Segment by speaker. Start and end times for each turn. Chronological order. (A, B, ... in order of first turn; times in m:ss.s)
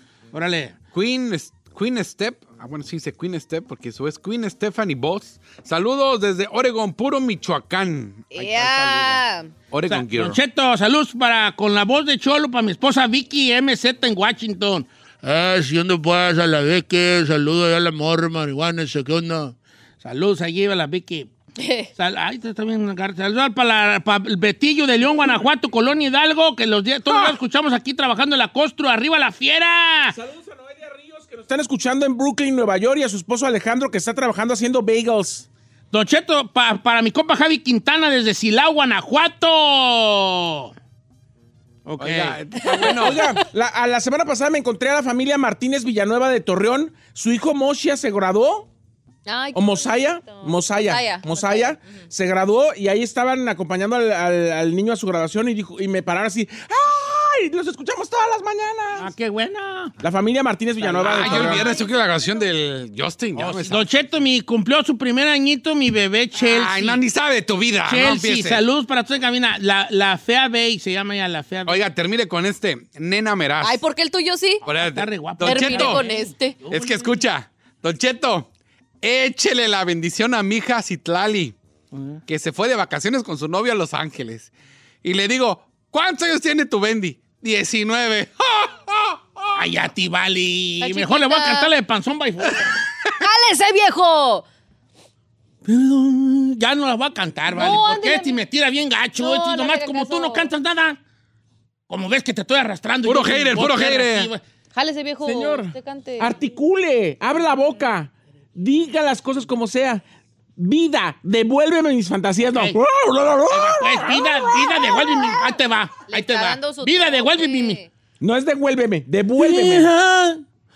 0:00.3-0:00.8 A
0:00.9-0:10.4 B
0:08.3-0:09.5 C
0:09.9-0:21.3 A
0:21.6-0:21.9 C
0:22.0-0:30.2 A
0:30.1-0:35.5 D
0:35.9-0:40.7 A
0:41.8-0:42.4 A
0:42.0-0:43.3 B
0:42.7-0:43.0 C
0:42.9-0:48.7 D
0:49.2-0:52.0 C
0:49.5-0:59.1 D
0:59.0-0:59.9 A
1:00.0-1:01.7 D
1:00.8-1:01.6 A
1:01.0-1:03.9 B
1:03.4-1:07.0 A
1:06.4-1:08.6 B
1:07.8-1:11.8 A
1:11.6-1:13.8 B
1:13.6-1:14.6 C
1:14.6-1:16.0 B
1:14.8-1:17.2 A
1:15.4-1:16.6 C
1:16.7-1:18.5 B
1:19.0-1:21.5 B
1:21.9-1:22.2 A
1:22.3-1:24.5 B
1:25.0-1:29.6 B
1:29.5-1:32.7 A
1:30.8-1:31.7 C
1:33.2-1:34.4 C
1:35.6-1:41.0 A
1:37.5-1:38.4 C
1:39.2-1:40.5 C
1:41.9-1:44.4 A
1:43.0-1:44.3 B
1:44.7-1:46.4 C
1:45.2-1:50.0 D
1:50.6-1:55.4 D
1:52.5-1:52.8 A
1:53.5-1:57.8 A
1:56.1-1:57.9 C
1:58.2-1:59.9 D
1:59.4-2:00.4 A